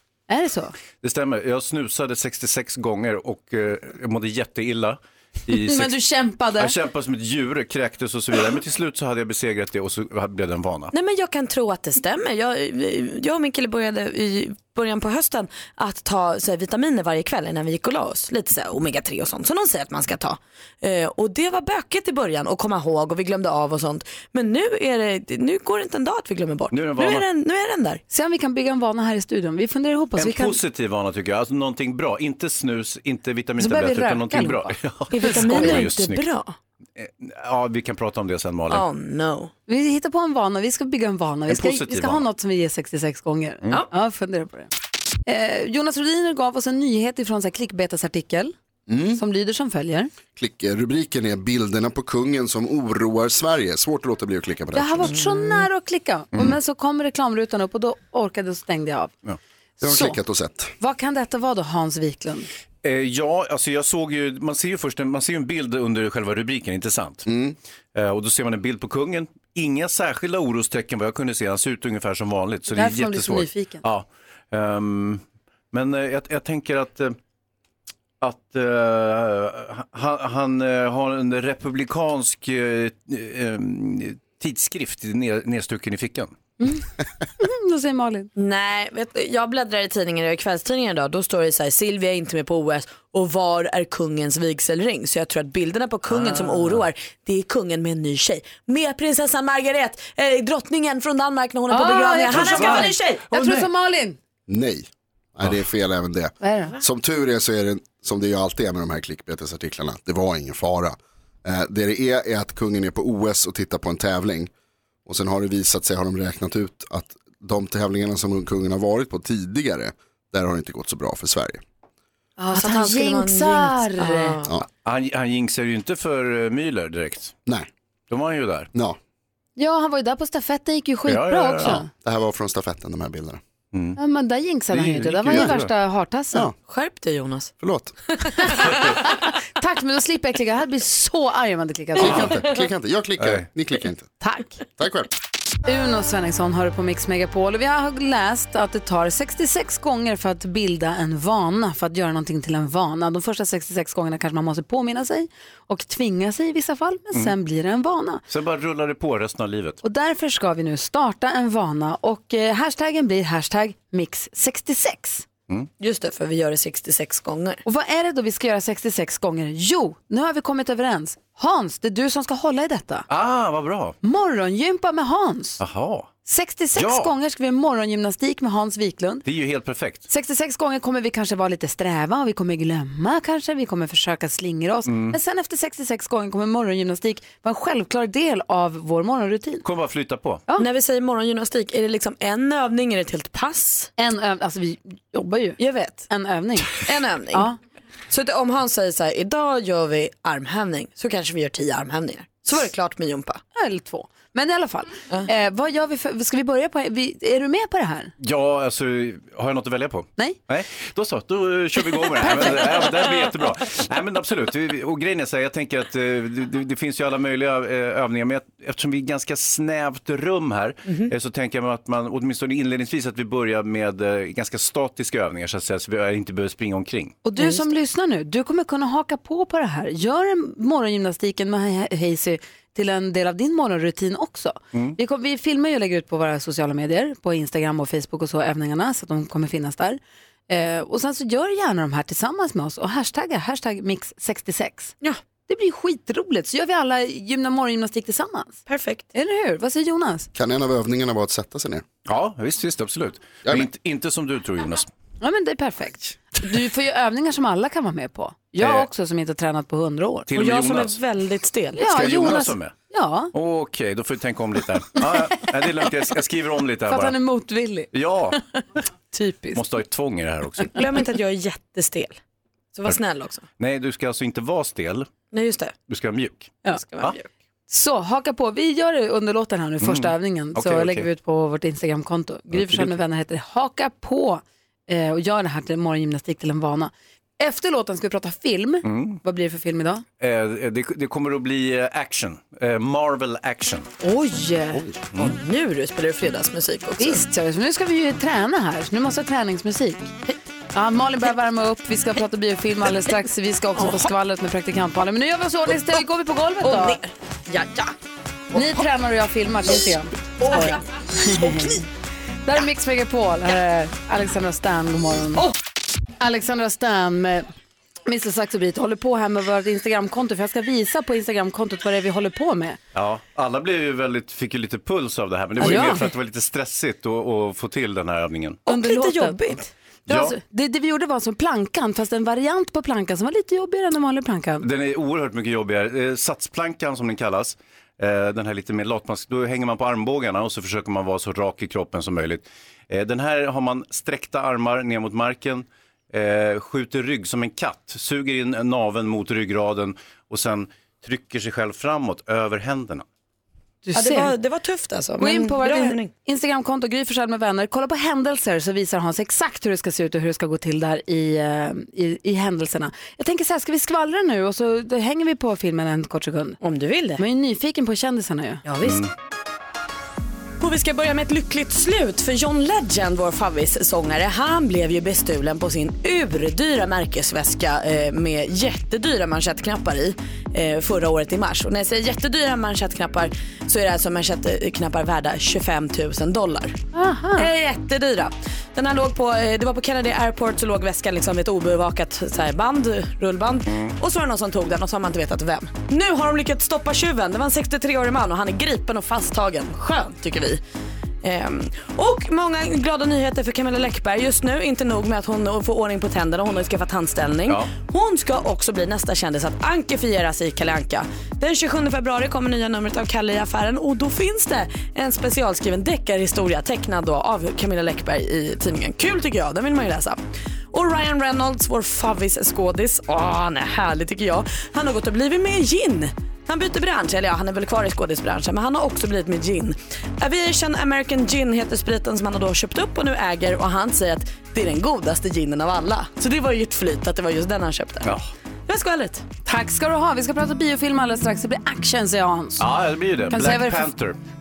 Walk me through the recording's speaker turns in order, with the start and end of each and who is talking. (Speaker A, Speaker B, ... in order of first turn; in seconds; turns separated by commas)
Speaker A: 0.3-0.8, Speaker B: 1.0-5.9, Speaker A: 5.5-6.7, Speaker B: 6.6-10.9, Speaker C: 10.9-28.0, Speaker B: 26.7-27.3, Speaker A: 28.1-30.6, Speaker B: 30.2-36.2, Speaker A: 33.6-35.8, Speaker C: 35.1-36.6, Speaker B: 37.0-38.9, Speaker C: 38.7-39.5, Speaker A: 39.7-44.7, Speaker B: 41.5-42.3, Speaker A: 45.3-48.5, Speaker D: 48.9-49.2, Speaker A: 49.1-50.1, Speaker D: 50.4-55.2, Speaker A: 54.7-59.1, Speaker D: 59.8-60.7, Speaker A: 59.8-60.2, Speaker A: 60.8-62.5, Speaker B: 62.8-67.3, Speaker D: 67.3-67.6, Speaker B: 67.9-77.2, Speaker A: 72.7-73.8, Speaker B: 78.2-86.3, Speaker A: 87.4-88.3, Speaker C: 88.4-103.2, Speaker B: 96.1-96.8, Speaker A: 101.7-104.2, Speaker B: 102.5-102.7, Speaker D: 104.5-114.5, Speaker A: 106.4-106.8, Speaker D: 115.1-121.6, Speaker A: 122.4-124.4, Speaker C: 122.5-124.5, Speaker B: 124.8-127.3, Speaker B: 128.1-128.7, Speaker A: 129.6-131.9, Speaker B: 131.1-131.8, Speaker D: 131.9-133.4, Speaker B: 133.7-134.0, Speaker A: 134.0-136.4, Speaker B: 134.7-135.7, Speaker C: 136.7-137.5, Speaker D: 137.6-137.9, Speaker A: 138.4-142.4, Speaker D: 142.0-144.1, Speaker B: 143.2-143.5, Speaker A: 144.2-144.6, Speaker D: 144.7-145.1, Speaker A: 145.7-158.2, Speaker B: 158.3-159.8, Speaker A: 159.8-165.3, Speaker C: 165.8-167.6, Speaker A: 167.7-173.1, Speaker B: 173.1-174.0, Speaker A: 174.0-175.6, Speaker B: 175.6-176.1, Speaker A: 176.2-179.2, Speaker B: 176.8-177.1, Speaker B: 179.2-180.1, Speaker A: 180.1-189.7, Speaker B: 184.9-185.2, Speaker B: 189.6-190.4, Speaker C: 190.6-193.9, Speaker A: 194.0-197.6, Speaker C: 195.6-196.1, Speaker C: 196.8-197.5, Speaker C: 198.1-203.4, Speaker A: 203.6-208.1, Speaker B: 208.2-227.2, Speaker A: 227.2-244.9, Speaker A: 245.5-248.6, Speaker C: 248.7-249.1, Speaker A: 249.1-250.3, Speaker D: 250.3-251.8, Speaker B: 252.1-254.9, Speaker A: 255.2-260.3, Speaker B: 258.6-258.9, Speaker B: 260.3-261.0, Speaker C: 260.3-261.8, Speaker A: 261.8-263.3, Speaker B: 261.8-262.8, Speaker B: 263.3-267.2, Speaker A: 266.9-267.9, Speaker B: 267.9-268.4, Speaker A: 269.1-269.6, Speaker B: 269.5-270.8, Speaker C: 270.7-272.2, Speaker C: 272.7-273.4, Speaker B: 273.6-275.1, Speaker C: 275.3-275.8, Speaker B: 275.9-277.2, Speaker C: 276.7-277.3, Speaker A: 277.7-290.0, Speaker B: 279.8-281.1, Speaker B: 282.5-283.0, Speaker B: 288.8-289.2, Speaker B: 290.2-293.9, Speaker A: 294.0-294.9, Speaker D: 294.7-295.0, Speaker C: 295.2-297.2, Speaker A: 297.0-300.2, Speaker A: 300.7-307.0, Speaker C: 303.8-304.0, Speaker C: 306.6-307.9, Speaker A: 308.5-311.9, Speaker C: 310.4-311.8, Speaker A: 312.5-315.4, Speaker A: 316.2-317.5, Speaker A: 318.1-322.8, Speaker B: 322.9-328.6, Speaker A: 325.6-326.0, Speaker C: 325.6-325.9, Speaker A: 328.7-329.4, Speaker C: 328.7-329.7, Speaker B: 330.1-330.4, Speaker A: 330.1-334.6, Speaker B: 334.6-353.1, Speaker A: 353.9-354.3, Speaker C: 353.9-356.1, Speaker A: 355.2-366.6, Speaker C: 366.6-367.2, Speaker A: 367.2-368.6, Speaker C: 368.6-369.0, Speaker B: 368.8-369.1, Speaker C: 370.6-386.8, Speaker A: 386.9-387.5, Speaker C: 387.4-400.6, Speaker C: 401.2-420.2, Speaker C: 420.7-438.1, Speaker B: 438.0-438.3, Speaker C: 438.7-439.3, Speaker A: 439.4-442.7, Speaker B: 442.6-444.2, Speaker A: 443.3-443.9